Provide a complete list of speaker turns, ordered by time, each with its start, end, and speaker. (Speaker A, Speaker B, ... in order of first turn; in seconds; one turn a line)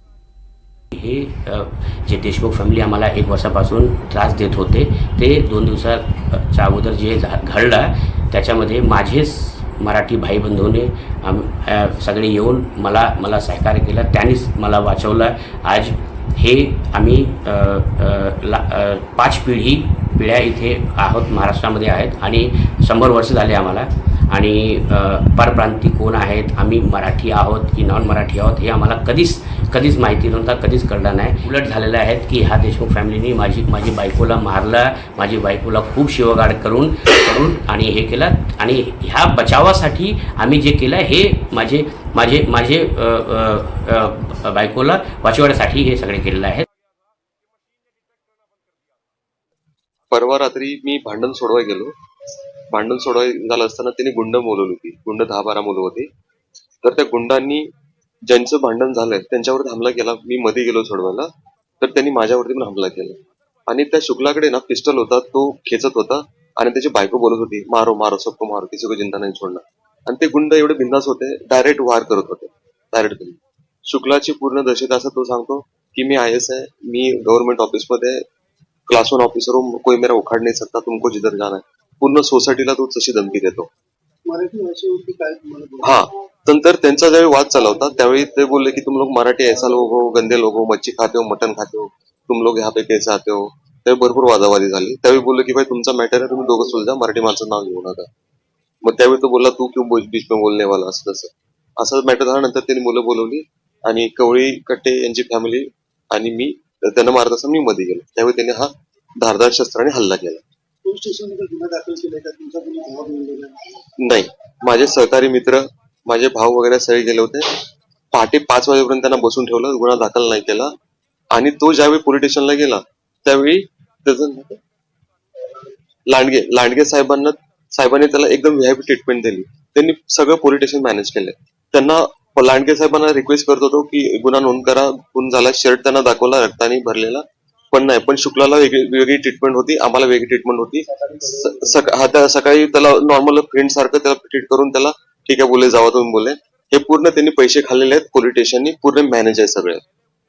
Speaker A: 0.9-46.6
Speaker B: 50.1-51.9
Speaker B: 52.7-56.1
Speaker B: 56.8-57.6
Speaker B: 58.3-61.3
Speaker B: 61.8-78.2
Speaker B: 78.9-83.7
Speaker C: 84.3-86.0
Speaker B: 85.8-98.1
Speaker B: 98.8-110.4
Speaker C: 110.8-113.9
Speaker B: 114.0-117.5
Speaker B: 118.1-120.7
Speaker B: 121.3-124.6
Speaker B: 126.1-140.8
Speaker C: 140.9-141.8
Speaker B: 141.4-149.8